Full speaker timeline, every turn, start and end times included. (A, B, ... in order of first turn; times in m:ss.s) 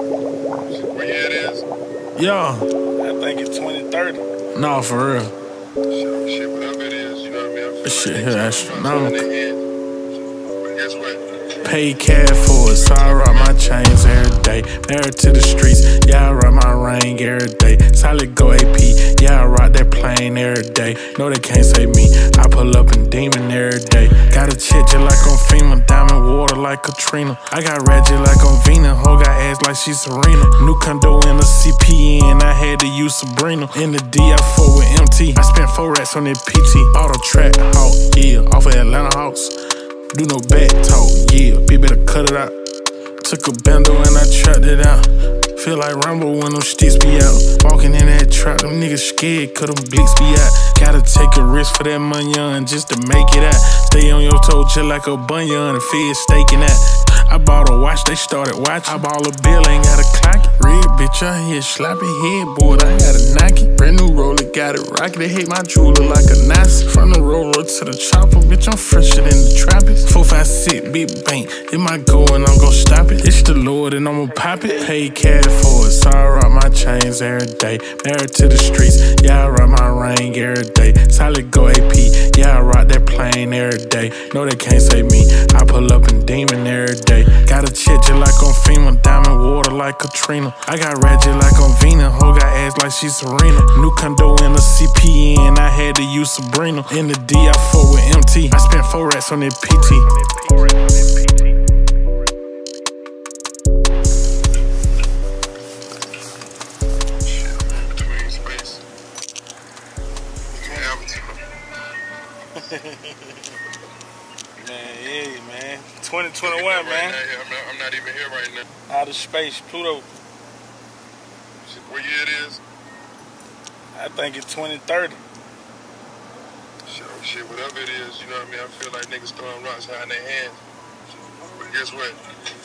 0:00.6-0:01.6 A
0:02.2-0:02.6 B
0:03.0-0:04.2 C
0:04.5-0:05.3 B
0:05.9-0:09.6 A
0:07.8-0:09.2 B
0:10.7-0:11.2 A
0:11.6-0:39.5 B
0:12.6-0:13.6 A
0:40.1-0:42.6 B
0:43.2-1:40.1 B
1:14.3-1:15.0 C
1:39.7-1:41.5 C
1:47.2-1:48.8 A
1:50.5-1:51.4 A
1:50.6-1:51.0 C
1:52.5-1:53.5 C
1:54.6-1:57.2 C
1:56.4-1:58.6 A
1:58.9-2:00.1 C
2:01.6-2:02.6 A
2:03.9-2:05.2 C
2:06.9-2:10.6 A
2:11.4-2:12.2 A